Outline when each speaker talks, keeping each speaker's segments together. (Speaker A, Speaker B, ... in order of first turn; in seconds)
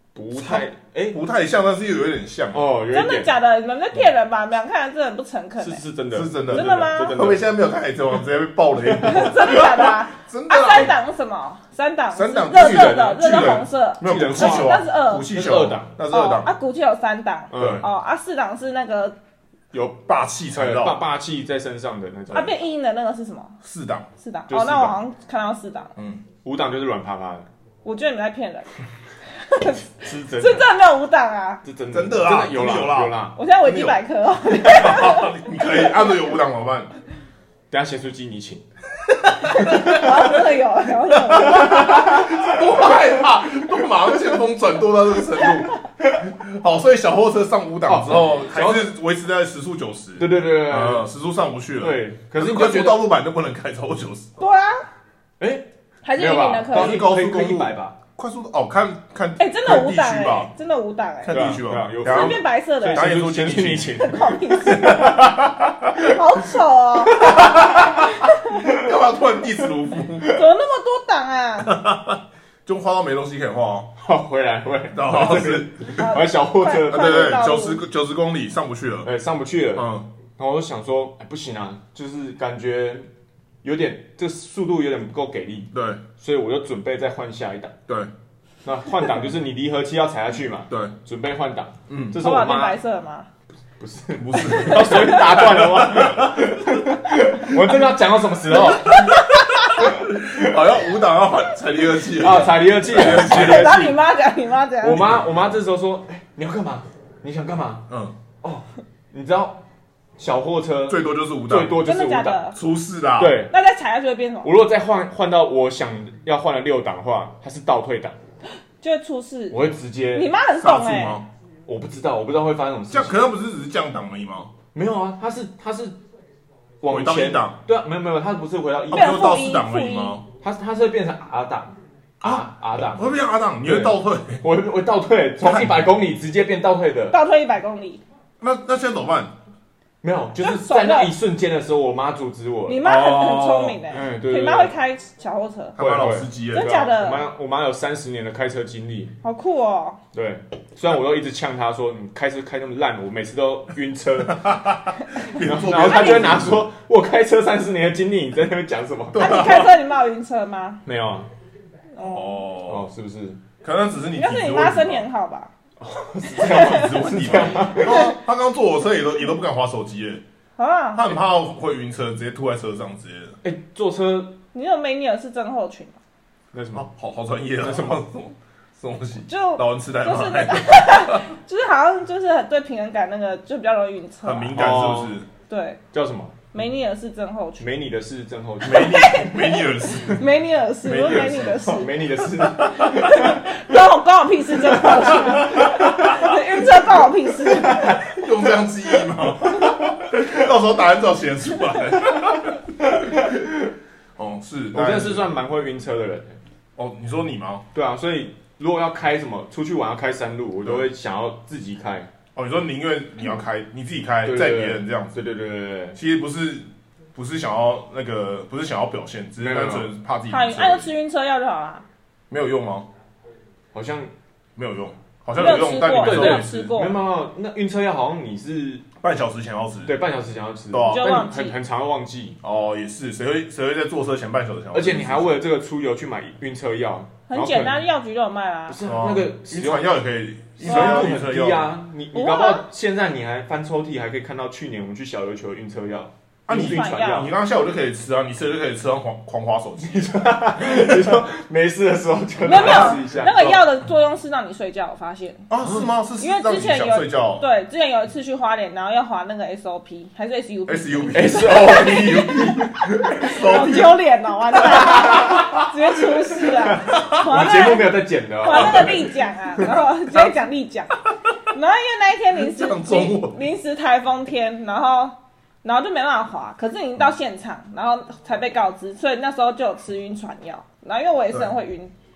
Speaker A: 0.1-1.2, 2.5-3.3, 5.6-7.5, 12.6-13.2, 14.0-16.0, 17.5-17.9, 20.5-22.5, 24.5-25.0, 26.4-27.4, 30.0-30.6, 31.6-33.4, 37.7-38.6, 39.6-40.0, 41.6-43.0, 47.9-48.9, 50.2-51.1, 51.8-53.1, 55.4-58.0, 61.3-65.5, 67.1-68.0, 68.6-68.9, 74.0-77.4, 79.0-83.1, 83.6-87.8, 88.6-92.8, 93.8-100.6, 102.1-103.9, 104.8-107.9, 108.4-109.6, 110.2-112.5, 113.2-113.5, 114.4-118.2, 119.5-120.3, 121.7-123.2, 124.7-126.0, 126.8-129.3, 130.3-137.2, 140.0-143.2, 143.8-144.7, 145.8-149.1, 150.1-154.4, 155.4-159.4, 160.8-161.3, 162.7-163.4, 165.8-168.1, 173.4-174.4, 176.5-176.9, 177.6-178.0, 184.6-185.2, 185.9-186.4, 187.6-189.1, 191.1-193.4, 197.5-198.2, 202.8-203.6, 204.7-206.4, 207.7-212.1, 214.2-216.0, 219.4-219.9, 223.7-224.1, 225.4-228.8, 229.8-232.4, 234.7-237.8, 238.7-239.9, 240.6-247.3, 249.8-253.6, 261.1-263.4, 264.7-265.6, 266.4-269.1
Speaker B: 0.3-2.7, 6.1-10.9, 12.1-16.5, 17.5-17.9, 19.9-21.0, 23.6-24.1, 26.0-26.2, 31.9-34.0, 34.6-36.9, 39.1-40.5, 41.1-54.3, 56.7-60.5, 61.2-64.0, 64.6-66.0, 67.2-68.1, 68.6-70.3, 71.6-73.9, 74.9-76.1, 76.9-79.1, 79.8-80.1, 85.7-86.0, 91.9-92.2, 94.2-96.9, 98.6-103.9, 107.9-108.1, 110.9-111.8, 112.5-113.4, 120.6-121.3, 122.9-124.5, 126.9-127.6, 128.9-130.2, 132.2-134.4, 135.4-135.9, 138.4-139.3, 142.8-143.8, 145.8-146.9, 154.2-156.6, 159.1-159.7, 162.0-162.8, 163.6-165.0, 166.4-170.2, 170.9-173.4, 176.7-181.3, 184.2-185.3, 188.6-190.3, 190.8-191.8, 195.0-196.4, 197.6-203.3, 204.2-205.3, 206.8-207.6, 212.3-215.2, 215.9-220.9, 222.3-222.9, 224.6-226.8, 229.0-229.9, 230.7-231.1, 232.4-235.3, 238.8-241.8, 246.5-250.1, 250.6-251.2, 255.5-257.4, 260.7-264.0, 264.6-265.7, 266.4-267.8, 268.5-269.1, 272.4-273.4
Speaker C: 2.9-5.8, 6.5-7.2, 9.0-15.4, 16.1-19.1, 22.3-23.6, 24.2-25.9, 27.9-28.7, 29.4-31.6, 33.4-35.9, 39.5-42.3, 54.4-54.9, 56.0-57.1, 59.4-61.5, 62.0-63.1, 63.9-65.2, 66.0-67.5, 68.1-68.6, 70.2-71.7, 76.0-77.8, 92.2-93.3, 94.5-95.5, 102.9-105.1, 111.8-112.6, 113.5-114.5, 118.8-119.6, 120.1-121.2, 128.9-130.2, 137.1-138.0, 140.4-141.1, 142.7-145.8, 146.5-147.3, 149.2-150.0, 155.8-156.4, 159.2-160.8, 161.9-162.4, 164.1-165.5, 166.4-167.0, 167.8-168.1, 170.6-171.1, 174.5-176.0, 179.3-184.6, 185.5-185.8, 186.5-187.7, 188.6-198.1, 220.3-221.8, 225.3-227.0, 230.8-231.6, 237.3-238.8, 240.6-241.2, 242.1-242.6, 246.5-247.3, 252.4-255.5, 256.2-262.5, 263.2-271.0, 271.5-281.9